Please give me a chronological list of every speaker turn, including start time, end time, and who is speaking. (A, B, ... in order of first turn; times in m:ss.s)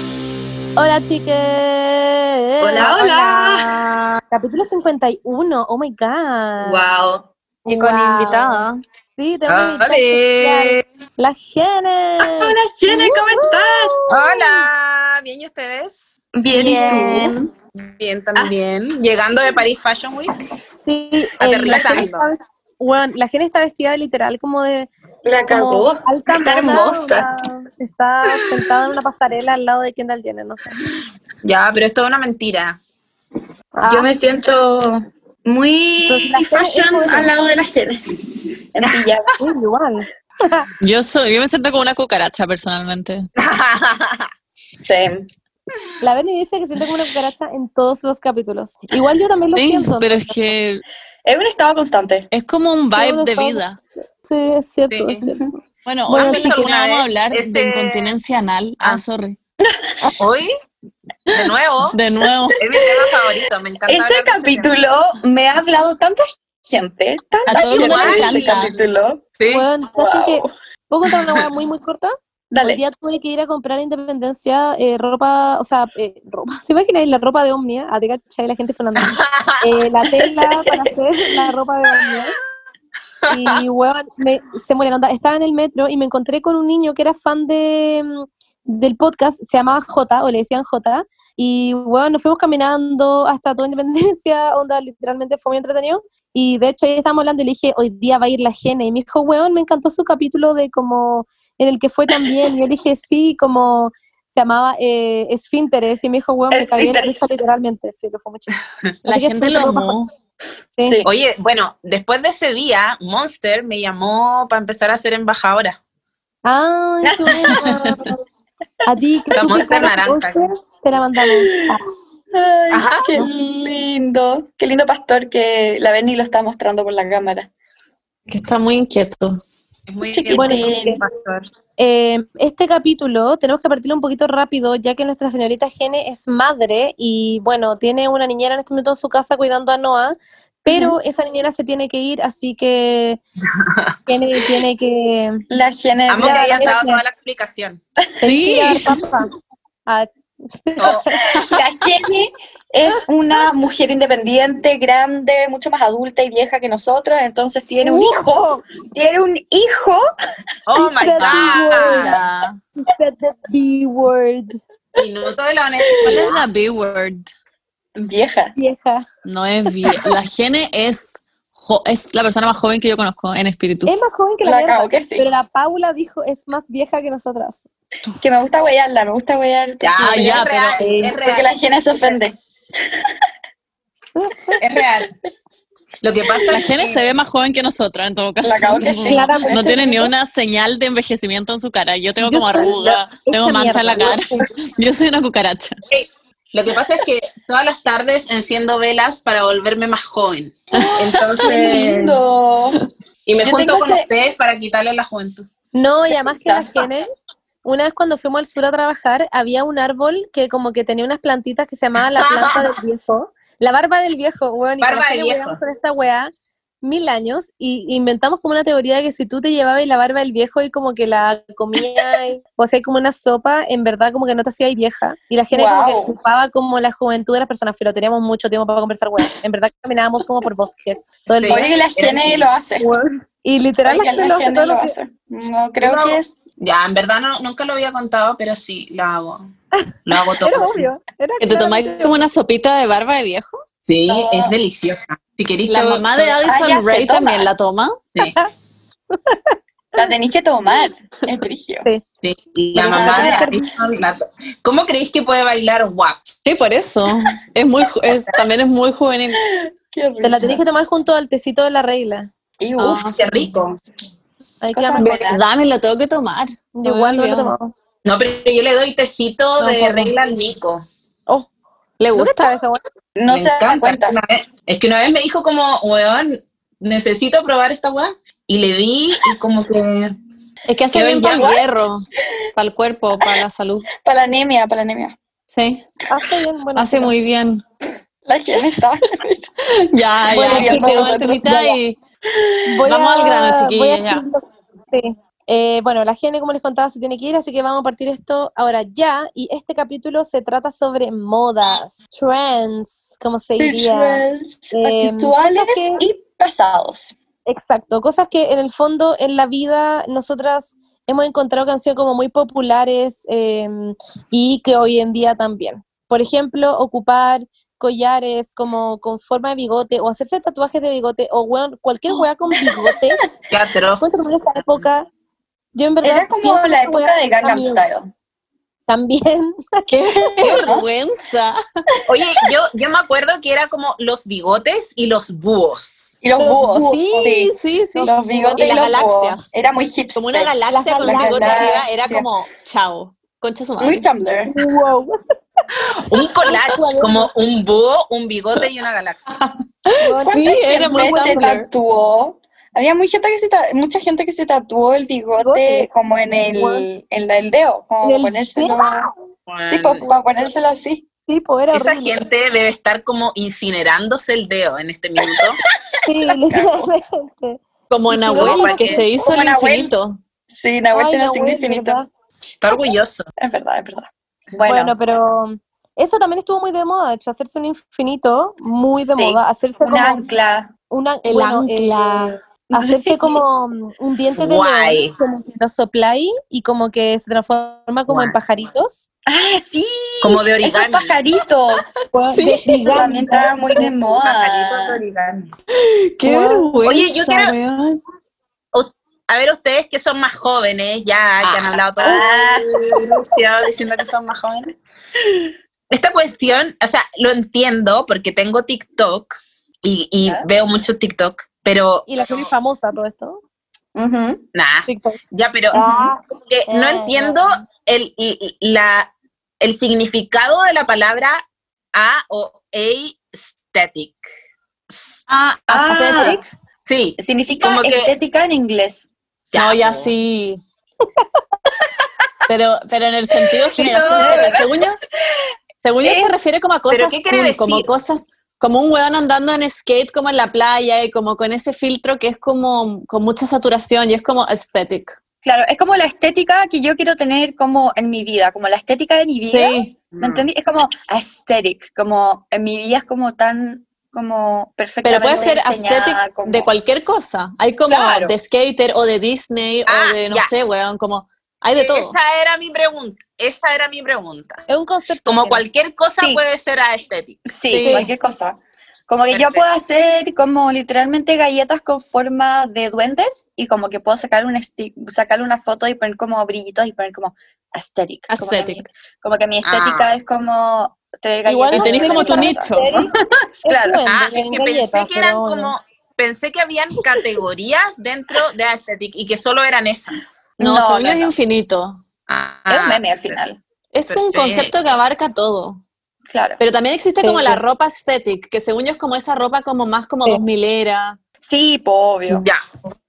0:00.8-0:06.9 A
0:02.6-0:03.7 B
0:06.6-0:07.2 B
0:07.6-0:08.6 A
0:07.6-0:08.8 C
0:09.2-0:14.6 A
0:09.5-0:10.8 D
0:12.3-0:14.0 B
0:14.1-0:16.1 D
0:16.3-0:17.3 B
0:16.5-0:17.5 C
0:18.0-0:20.4 D
0:20.8-0:24.9 A
0:21.4-0:22.2 D
0:21.6-0:22.0 B
0:25.2-0:27.3 B
0:25.4-0:30.6 A
0:31.4-0:32.8 D
0:33.8-0:34.1 A
0:33.9-0:38.2 B
0:36.1-0:37.3 A
0:38.7-0:39.4 B
0:39.4-0:40.7 A
0:40.8-0:43.3 C
0:43.4-0:44.3 D
0:44.8-0:45.3 B
0:46.0-0:50.5 A
0:49.6-0:50.8 C
0:51.3-0:52.3 B
0:52.3-0:53.8 C
0:53.0-0:53.6 A
0:54.3-0:55.5 A
0:54.9-0:55.3 D
0:55.8-0:59.4 C
0:56.1-0:56.7 A
0:56.1-0:58.2 D
0:59.7-1:00.1 B
1:00.2-1:00.5 D
1:01.3-1:02.0 D
1:01.4-1:02.6 C
1:02.6-1:04.7 D
1:02.7-1:09.2 B
1:07.5-1:08.7 C
1:07.5-1:08.5 D
1:09.4-1:09.7 D
1:09.5-1:22.3 A
1:09.9-1:10.5 B
1:12.5-1:12.8 B
1:19.0-1:19.6 D
1:20.5-1:20.9 B
1:23.3-1:48.5 A
1:23.3-1:23.6 D
1:46.5-1:47.3 B
1:49.0-1:50.1 C
1:49.1-1:50.0 A
1:51.0-1:55.8 D
1:56.4-1:58.0 A
1:57.1-1:58.1 B
1:57.5-1:58.1 C
1:58.8-2:01.8 A
1:59.3-1:59.7 B
1:59.4-2:00.5 D
2:02.3-2:07.5 B
2:02.7-2:03.1 D
2:08.3-2:09.3 C
2:09.9-2:10.8 D
2:10.1-2:11.0 B
2:10.3-2:11.1 A
2:11.8-2:23.2 A
2:20.7-2:21.0 B
2:23.5-2:24.0 D
2:24.1-2:25.4 A
2:25.5-2:26.8 B
2:26.1-2:27.8 D
2:26.2-2:27.0 A
2:28.2-2:29.3 A
2:28.2-2:29.1 C
2:29.9-2:31.2 A
2:30.8-2:31.1 D
2:31.4-2:40.0 B
2:37.8-2:38.6 A
2:40.7-2:42.1 D
2:40.7-2:42.2 A
2:41.2-2:42.6 C
2:42.8-2:44.6 A
2:45.0-2:46.4 D
2:46.0-2:47.3 C
2:48.0-2:48.5 B
2:48.6-2:49.1 A
2:49.2-2:53.9 C
2:53.9-2:57.6 A
2:54.4-2:55.3 B
2:58.2-3:00.5 B
2:59.8-3:01.5 D
3:00.0-3:00.8 C
3:00.8-3:01.2 A
3:01.1-3:03.1 B
3:04.2-3:04.6 A
3:04.6-3:05.1 D
3:06.0-3:07.1 D
3:06.5-3:15.8 C
3:08.4-3:09.8 B
3:08.9-3:10.1 A
3:12.2-3:14.5 A
3:15.9-3:22.2 D
3:20.8-3:21.5 C
3:21.4-3:22.8 B
3:23.3-3:25.5 D
3:23.4-3:24.1 B
3:25.8-3:27.1 A
3:26.1-3:26.8 B
3:27.6-3:36.3 A
3:32.2-3:32.6 D
3:34.8-3:35.6 D
3:36.8-3:51.7 A
3:45.5-3:46.2 B
3:51.4-3:52.5 D
3:51.5-3:52.9 B
3:52.8-3:54.9 A
3:53.8-3:56.3 B
3:55.8-3:59.5 D
3:59.8-4:02.2 A
4:00.1-4:00.9 D
4:01.4-4:03.6 C
4:03.9-4:06.4 D
4:04.1-4:04.6 B
4:05.7-4:08.0 C
4:06.5-4:07.5 B
4:08.2-4:08.5 A
4:09.1-4:10.1 A
4:10.0-4:11.9 B
4:12.2-4:16.4 D
4:12.8-4:14.0 A
4:12.8-4:13.5 B
4:16.4-4:19.4 C
4:19.4-4:20.6 B
4:20.2-4:22.3 A
4:22.6-4:23.1 B
4:22.8-4:23.5 C
4:22.8-4:23.8 D
4:24.6-4:25.2 A
4:24.7-4:25.4 B
4:25.0-4:27.5 C
4:26.8-4:27.7 A
4:28.0-4:30.9 D
4:29.6-4:30.2 A
4:32.0-4:32.6 C
4:32.1-4:32.8 A
4:33.2-4:34.2 B
4:33.3-4:40.1 D
4:40.7-4:42.0 C
4:40.9-4:41.5 D
4:41.2-4:41.6 B
4:42.6-4:43.9 C
4:44.0-4:45.2 B
4:45.5-4:45.9 C
4:46.1-4:47.1 A
4:46.8-4:47.6 C
4:48.2-4:49.5 B
4:49.9-4:52.0 C
4:50.3-4:51.2 A
4:50.3-4:51.8 B
4:52.3-4:52.8 B
4:52.7-5:06.0 A
4:52.8-4:54.2 C
5:03.6-5:07.2 B
5:07.5-5:23.2 A
5:23.5-5:24.3 D
5:24.0-5:25.1 A
5:25.8-5:27.8 A
5:26.0-5:28.1 B
5:28.9-5:30.6 A
5:29.9-5:31.6 C
5:30.4-5:30.9 B
5:32.1-5:36.2 D
5:36.2-5:42.2 B
5:36.4-5:38.8 A
5:36.8-5:39.6 C
5:40.2-5:44.0 C
5:40.7-5:41.8 A
5:43.8-5:44.6 B
5:44.5-5:45.2 A
5:46.0-5:49.3 D
5:46.4-5:47.3 A
5:49.3-5:51.7 C
5:50.0-5:51.6 A
5:50.2-5:59.1 B
5:55.4-5:55.9 A
5:56.5-5:56.9 A
5:58.0-5:59.1 A
5:59.5-6:00.1 D
5:59.6-6:01.0 B
6:01.3-6:02.2 A
6:01.7-6:05.6 D
6:05.2-6:05.5 B
6:06.1-6:09.1 A
6:06.4-6:06.8 B
6:07.9-6:10.2 C
6:08.4-6:09.0 D
6:09.1-6:09.9 B
6:10.5-6:12.0 B
6:10.9-6:12.1 A
6:12.6-6:13.2 D
6:13.4-6:14.9 B
6:14.6-6:20.2 A
6:19.1-6:20.7 B
6:20.9-6:29.0 A
6:21.2-6:22.3 C
6:22.7-6:23.4 B
6:24.4-6:25.1 D
6:28.1-6:28.4 D
6:29.3-6:31.9 B
6:30.2-6:31.2 D
6:32.1-6:33.9 A
6:32.2-6:33.1 C
6:32.9-6:35.0 B
6:34.2-6:35.5 D
6:36.2-6:38.0 C
6:36.2-6:36.7 A
6:36.8-6:37.6 D
6:38.7-6:44.7 D
6:41.4-6:42.2 C
6:42.0-6:42.6 A
6:42.0-6:42.6 B
6:45.9-6:52.5 D
6:52.1-6:53.4 A
6:53.9-6:54.4 B
6:54.6-7:01.4 D
6:54.9-6:55.2 A
6:55.7-6:57.6 A
7:01.9-7:04.2 D
7:04.9-7:05.2 D
7:05.3-7:06.4 C
7:05.7-7:06.4 B
7:06.9-7:08.1 D
7:07.2-7:09.1 B
7:09.5-7:10.1 D
7:09.5-7:10.6 C
7:12.5-7:15.0 C
7:13.8-7:14.8 B
7:13.8-7:14.6 D
7:15.8-7:25.2 C
7:16.0-7:16.4 B
7:16.9-7:17.9 D
7:25.4-7:36.7 B
7:29.4-7:29.9 C
7:30.1-7:30.5 D
7:35.0-7:42.2 C
7:35.2-7:35.6 A
7:37.9-7:38.4 B
7:39.9-7:40.5 D
7:41.8-7:44.6 D
7:44.7-7:45.6 A
7:45.2-7:47.4 D
7:47.4-8:04.0 B
7:47.7-7:48.1 C
7:47.8-7:48.1 A
7:49.3-7:49.7 D
7:58.3-7:58.8 C
7:59.6-8:00.1 D
8:01.4-8:03.1 A
8:01.7-8:02.8 C
8:03.6-8:05.7 A
8:04.1-8:10.3 D
8:10.6-8:11.3 B
8:10.6-8:12.0 C
8:12.3-8:13.4 D
8:12.7-8:13.6 B
8:13.9-8:15.8 C
8:14.1-8:14.7 D
8:16.3-8:16.6 B
8:16.6-8:21.2 C
8:17.2-8:17.6 A
8:21.4-8:22.4 B
8:22.3-8:22.6 D